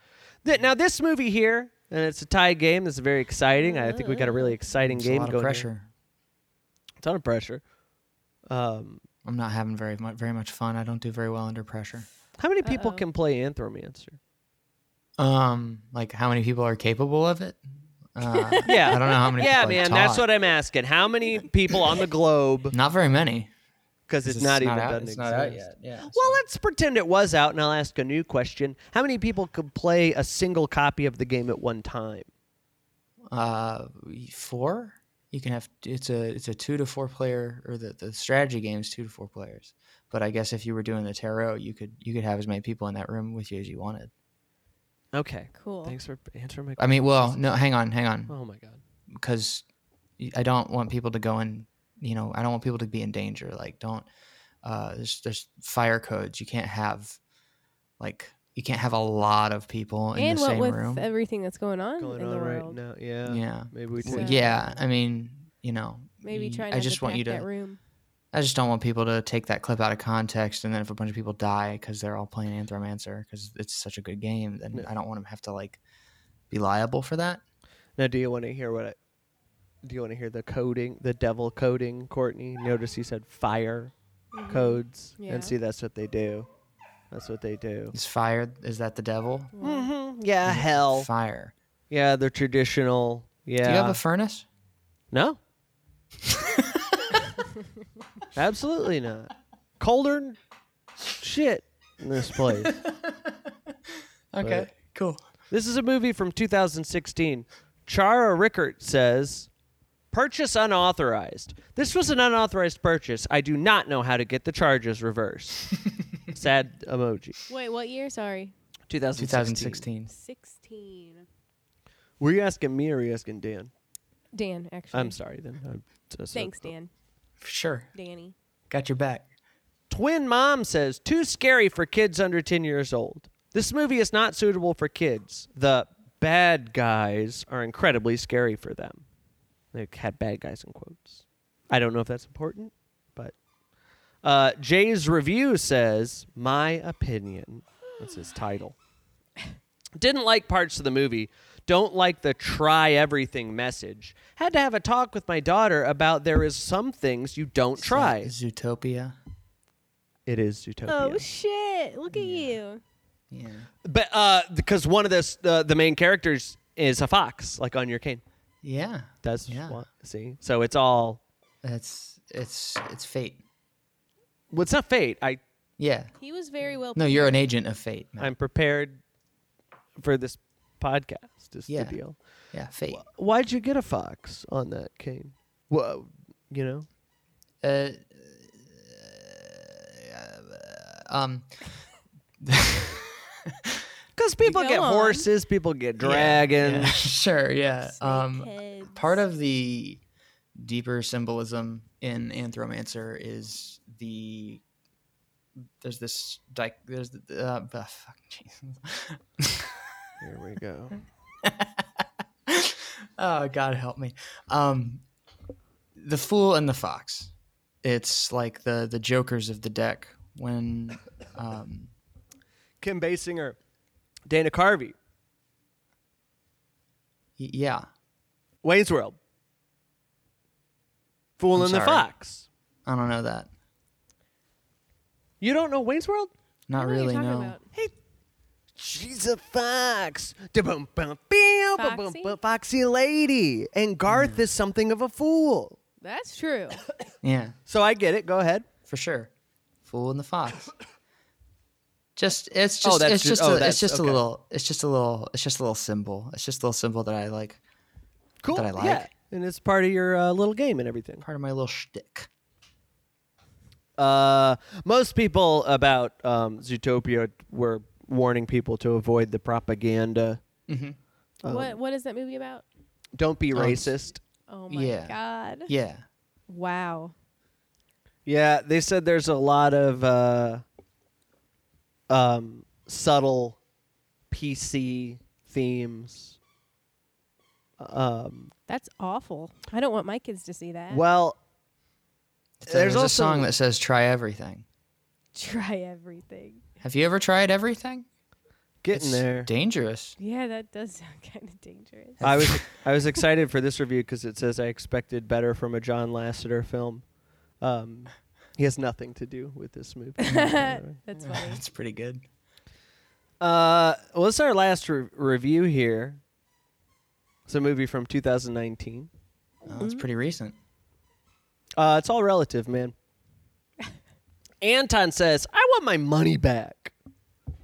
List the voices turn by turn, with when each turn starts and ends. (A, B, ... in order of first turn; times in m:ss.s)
0:00.4-0:05.7 A
0:03.6-0:04.6 B
0:04.8-0:05.9 C
0:07.0-0:07.6 A
0:08.5-0:09.0 A
0:09.2-0:12.1 C
0:12.4-0:14.2 A
0:12.6-0:13.0 B
0:15.2-0:20.2 C
0:18.3-0:19.3 B
0:18.6-0:22.7 A
0:22.7-0:23.5 C
0:24.1-0:32.3 A
0:24.2-0:26.4 C
0:33.3-0:44.1 C
0:45.1-0:47.4 A
0:45.6-0:46.0 B
0:46.8-0:48.3 C
0:48.3-0:48.8 A
0:49.1-0:49.6 C
0:50.2-0:54.1 C
0:54.6-0:57.2 C
0:58.0-1:01.0 C
1:00.1-1:02.8 B
1:02.0-1:04.6 A
1:03.2-1:07.5 C
1:04.0-1:04.6 B
1:06.2-1:07.8 B
1:08.3-1:15.8 C
1:16.5-1:17.4 C
1:18.0-1:19.0 A
1:19.8-1:23.9 A
1:24.3-1:25.5 B
1:24.5-1:26.5 A
1:27.1-1:27.9 A
1:27.9-1:29.5 C
1:29.6-1:29.9 B
1:29.6-1:31.1 A
1:30.4-1:31.5 C
1:31.9-1:34.0 A
1:33.6-1:34.5 C
1:35.1-1:35.4 A
1:36.2-1:37.2 C
1:38.3-1:40.4 A
1:41.2-1:42.8 A
1:42.4-1:43.5 C
1:44.3-1:45.2 C
1:44.4-1:44.7 A
1:45.5-1:49.5 A
1:50.1-1:55.7 A
1:56.3-1:57.4 A
1:57.5-1:58.5 B
1:58.9-1:59.8 A
1:59.1-2:00.1 C
2:00.1-2:01.2 B
2:02.2-2:03.7 A
2:04.3-2:05.2 B
2:04.9-2:06.7 A
2:06.3-2:06.9 B
2:07.4-2:07.9 C
2:07.9-2:08.3 B
2:08.7-2:09.3 C
2:09.9-2:19.0 A
2:19.7-2:23.3 A
2:24.2-2:28.8 A
2:30.0-2:38.3 A
2:37.8-2:39.2 C
2:40.3-2:41.2 A
2:40.9-2:42.8 B
2:42.1-2:42.6 C
2:43.3-2:43.7 C
2:43.8-2:48.2 A
2:48.6-2:49.8 C
2:49.2-2:51.2 A
2:51.6-2:53.4 C
2:54.5-2:55.4 A
2:55.8-2:56.1 C
2:56.2-2:57.4 B
2:56.9-2:58.3 C
2:58.2-2:59.0 A
3:00.0-3:02.2 A
3:01.7-3:02.0 C
3:02.5-3:03.0 C
3:02.9-3:06.8 A
3:07.6-3:11.5 C
3:12.4-3:13.8 C
3:14.2-3:17.0 A
3:14.4-3:15.3 B
3:16.0-3:20.0 C
3:17.8-3:19.2 B
3:20.6-3:24.6 C
3:25.8-3:29.9 C
3:30.2-3:31.0 A
3:31.4-3:35.0 C
3:36.0-3:37.3 C
3:37.8-3:41.9 C
3:42.8-3:43.6 A
3:44.3-3:45.0 A
3:47.4-3:47.8 C
3:48.6-3:49.2 A
3:51.4-3:52.5 A
3:51.6-3:52.1 C
3:52.8-3:53.5 C
3:55.4-3:56.3 A
3:56.7-3:57.5 C
3:56.7-3:57.7 B
3:58.8-4:05.8 A
4:01.8-4:02.4 B
4:04.1-4:04.4 C
4:06.0-4:06.8 B
4:07.2-4:07.5 C
4:07.7-4:08.6 A
4:08.9-4:09.3 C
4:09.8-4:10.7 C
4:12.2-4:17.6 C
4:12.8-4:14.2 A
4:18.4-4:21.2 A
4:18.5-4:19.1 C
4:21.2-4:22.3 C
4:24.0-4:30.4 A
4:30.7-4:31.0 C
4:31.4-4:31.8 A
4:31.4-4:32.6 B
4:33.2-4:34.2 A
4:33.5-4:33.9 C
4:34.5-4:35.7 B
4:34.7-4:36.0 C
4:36.5-4:37.1 B
4:38.2-4:40.6 A
4:42.1-4:43.6 A
4:44.3-4:46.4 A
4:47.8-4:48.5 A
4:48.7-4:51.0 B
4:50.9-4:51.4 A
4:52.6-4:54.6 C
4:52.7-4:53.5 A
4:55.3-4:56.6 B
4:56.8-4:58.1 C
4:58.8-4:59.5 A
4:58.9-5:00.2 C
5:00.2-5:02.2 B
5:02.2-5:02.6 C
5:02.2-5:07.0 A
5:07.6-5:11.0 A
5:10.2-5:11.6 B
5:11.2-5:12.2 C
5:13.4-5:16.2 A
5:17.5-5:19.1 A
5:19.6-5:20.6 C
5:19.8-5:20.0 B
5:21.8-5:22.9 A
5:24.6-5:26.9 A